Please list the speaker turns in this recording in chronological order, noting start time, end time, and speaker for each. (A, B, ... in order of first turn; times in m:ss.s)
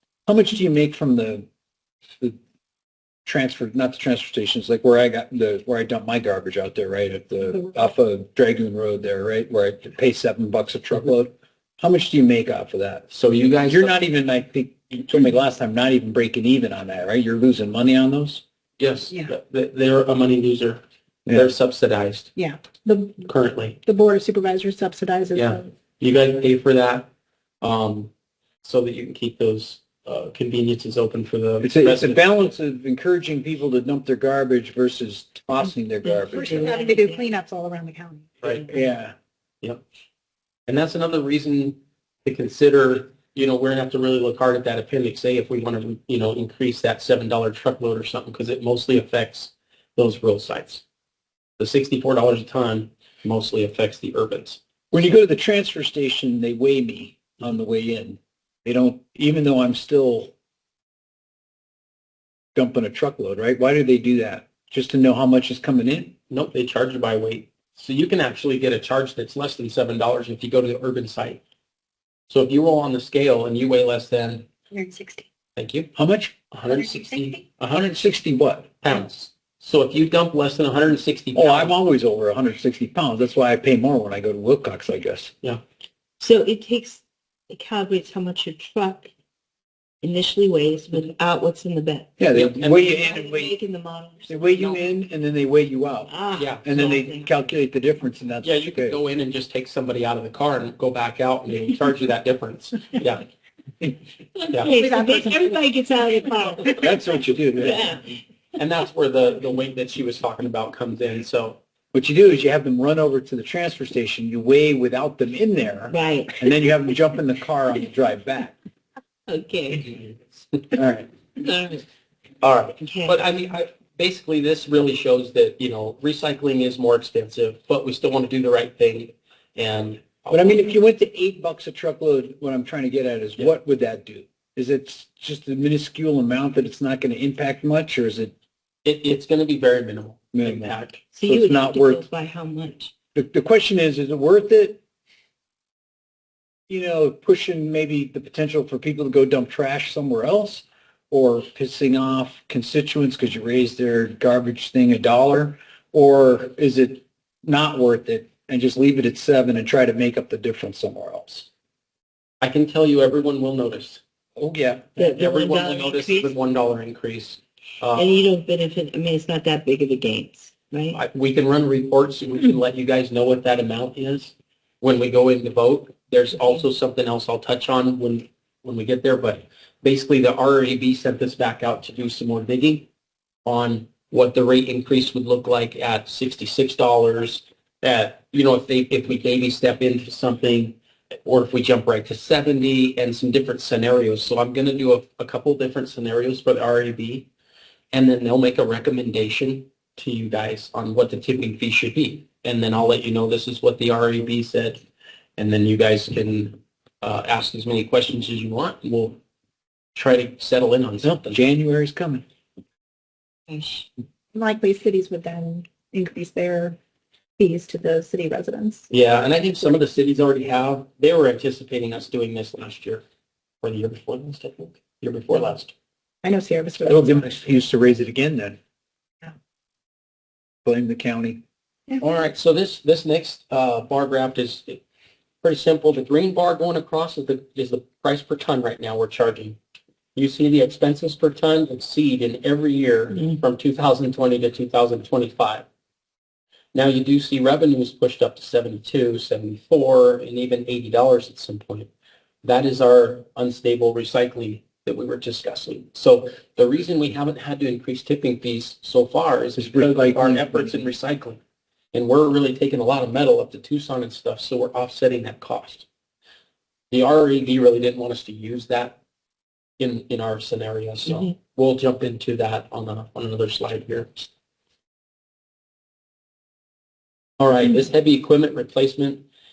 0:00.3-0:01.5 A
0:03.3-0:13.1 A
0:13.1-0:14.0 B
0:13.7-0:18.4 A
0:18.8-0:22.3 B
0:21.3-0:21.5 A
0:22.4-0:23.3 C
0:23.3-0:23.8 B
0:23.8-0:25.7 C
0:25.4-0:27.1 B
0:27.6-0:28.1 B
0:28.6-0:32.2 B
0:31.6-0:36.8 A
0:36.0-0:37.3 D
0:36.3-0:38.3 C
0:38.4-0:38.7 B
0:38.7-0:39.2 A
0:40.7-0:50.8 B
0:51.6-0:54.6 B
0:54.9-1:00.3 A
1:02.6-1:06.2 A
1:06.3-1:11.4 B
1:12.3-1:14.5 B
1:14.7-1:15.3 C
1:15.6-1:15.9 B
1:16.0-1:16.4 A
1:16.5-1:18.2 B
1:16.7-1:17.4 C
1:17.7-1:18.7 A
1:18.8-1:21.7 B
1:21.4-1:25.3 A
1:26.2-1:29.1 D
1:30.0-1:34.8 D
1:32.2-1:33.5 A
1:32.3-1:33.0 B
1:34.3-1:36.1 A
1:36.1-1:37.3 D
1:36.4-1:37.0 B
1:36.6-1:39.0 A
1:38.4-1:43.3 B
1:44.4-1:48.0 D
1:44.7-1:45.6 C
1:46.8-1:48.1 A
1:48.6-1:51.6 B
1:51.9-1:58.6 A
1:55.9-1:56.5 D
1:59.3-2:00.0 D
2:00.7-2:01.1 A
2:01.4-2:01.9 D
2:02.4-2:10.7 B
2:02.8-2:03.2 D
2:10.3-2:18.3 A
2:18.8-2:21.0 B
2:20.3-2:22.1 A
2:21.1-2:22.9 D
2:23.2-2:24.8 A
2:26.7-2:41.5 A
2:42.4-2:44.0 B
2:44.4-2:45.0 A
2:45.0-2:46.4 D
2:45.0-2:48.2 B
2:48.0-2:51.0 D
2:50.9-3:02.9 B
3:03.4-3:17.3 B
3:17.9-3:24.8 B
3:25.4-3:29.2 B
3:30.0-3:31.4 B
3:31.0-3:32.2 A
3:33.5-3:33.9 D
3:34.3-3:36.8 C
3:37.4-3:38.9 C
3:38.9-3:43.0 B
3:43.6-3:45.7 B
3:46.2-3:47.4 C
3:46.8-3:48.6 A
3:50.6-3:51.4 A
3:52.0-3:54.8 B
3:55.4-3:59.6 B
4:00.2-4:05.7 B
4:06.7-4:11.9 B
4:12.4-4:21.4 B
4:19.6-4:20.9 A
4:21.9-4:25.9 B
4:26.9-4:29.0 B
4:29.8-4:34.2 B
4:31.1-4:31.3 D
4:37.4-4:39.2 B